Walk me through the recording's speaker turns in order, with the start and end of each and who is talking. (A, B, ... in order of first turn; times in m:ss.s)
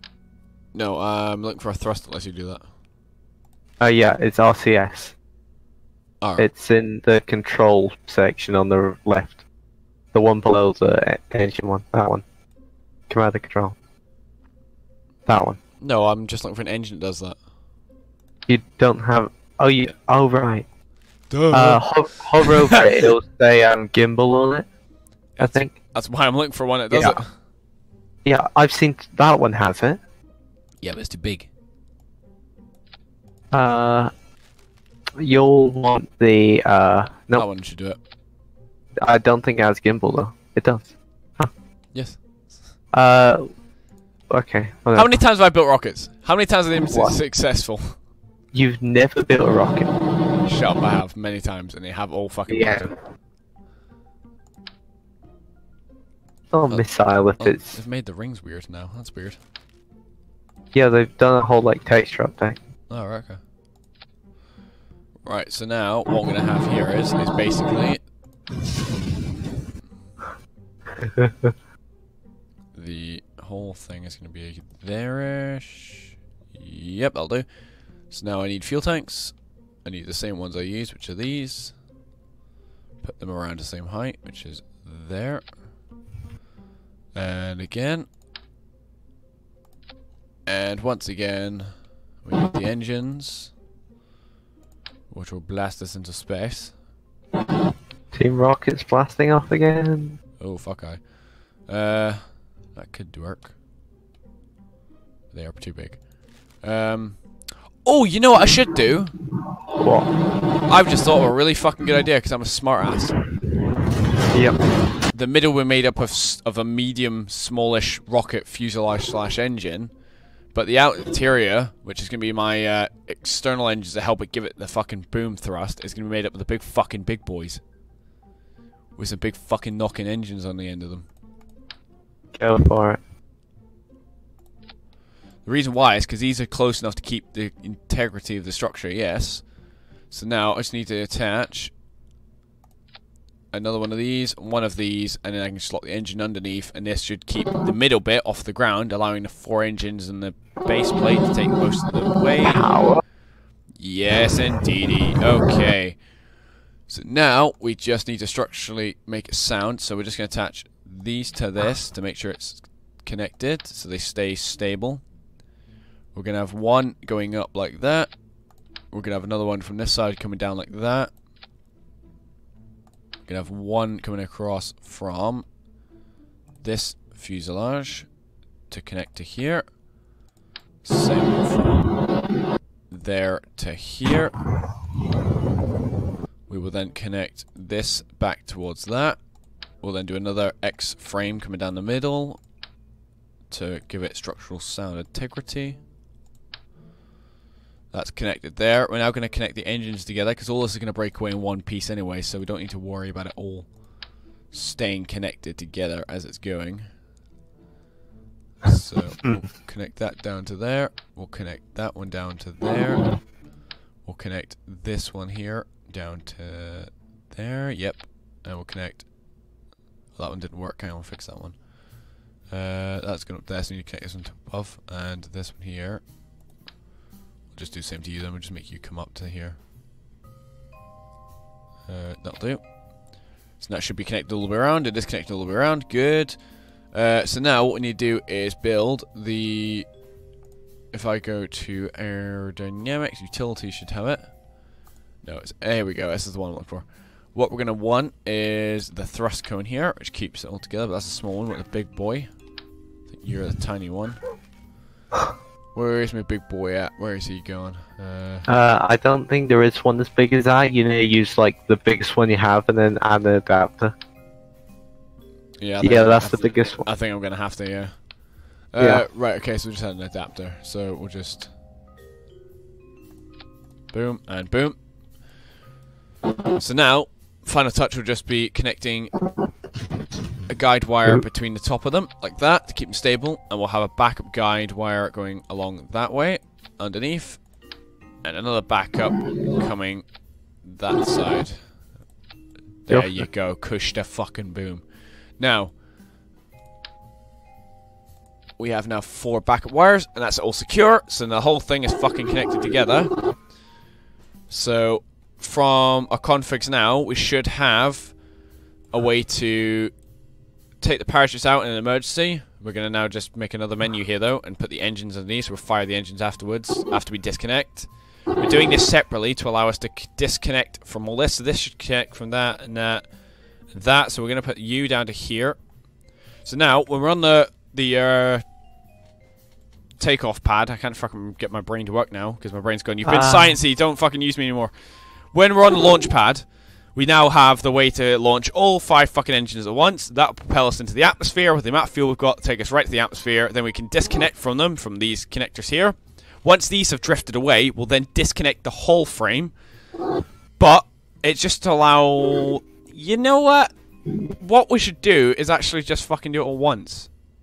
0:00.7-0:02.6 A
0:03.8-0:05.2 B
0:06.2-0:06.5 A
0:06.4-0:09.4 B
0:10.1-0:12.2 B
0:13.1-0:13.8 B
0:15.3-0:15.6 B
0:15.8-0:17.4 A
0:18.5-0:20.7 B
0:21.3-0:23.1 A
0:21.5-0:24.7 B
0:25.4-0:27.3 A
0:25.4-0:25.7 B
0:26.9-0:27.2 B
0:28.2-0:30.0 B
0:30.8-0:31.5 A
0:33.5-0:34.1 B
0:35.2-0:37.4 B
0:37.3-0:38.0 A
0:39.0-0:41.5 B
0:41.9-0:42.2 A
0:42.9-0:43.5 B
0:44.3-0:45.2 B
0:45.0-0:48.0 A
0:46.9-0:47.2 B
0:48.5-0:49.9 B
0:50.4-0:52.9 A
0:52.5-0:52.9 B
0:56.5-0:57.8 B
0:56.7-0:59.4 A
1:00.7-1:02.6 B
1:02.9-1:03.4 A
1:05.2-1:08.0 A
1:12.7-1:21.8 A
1:23.0-1:25.6 A
1:27.1-1:28.1 A
1:30.5-1:33.5 A
1:35.1-1:36.8 A
1:38.1-1:40.2 B
1:40.4-1:43.6 A
1:45.3-1:49.2 A
1:49.8-1:50.1 B
1:50.7-1:53.2 A
1:55.1-2:00.0 A
2:00.5-2:07.6 A
2:09.0-2:11.1 A
2:12.4-2:13.0 B
2:15.4-2:19.6 A
2:20.1-2:21.7 A
2:23.5-2:32.8 A
2:32.5-2:33.0 B
2:33.8-2:36.0 A
2:36.9-2:45.1 A
2:46.1-2:48.3 A
2:48.8-2:51.1 A
2:53.3-2:55.5 A
2:56.6-2:58.2 A
2:58.7-2:59.7 A
3:00.8-3:02.0 A
3:02.9-3:04.4 A
3:06.5-3:12.4 A
3:13.5-3:15.8 A
3:17.9-3:23.8 A
3:24.5-3:26.9 A
3:28.6-3:33.4 A
3:34.0-3:39.1 A
3:40.2-3:41.7 A
3:42.4-3:46.0 A
3:47.5-3:49.6 A
3:51.9-3:59.9 A
4:00.9-4:04.6 A
4:05.2-4:12.3 A
4:13.1-4:14.2 A
4:15.7-4:18.5 A
4:18.5-4:23.9 B
4:25.6-4:31.5 A
4:25.8-4:26.9 B
4:28.8-4:29.0 B
4:33.9-4:34.8 A
4:36.6-4:39.2 A
4:40.5-4:47.5 A
4:48.2-4:52.0 A
4:52.8-4:55.8 A
4:52.9-4:53.3 B
4:58.6-5:03.2 A
5:04.5-5:08.2 A
5:08.9-5:10.0 A
5:10.8-5:25.8 A
5:26.4-5:28.4 A
5:30.0-5:49.6 A
5:33.0-5:33.6 B
5:50.6-5:57.1 A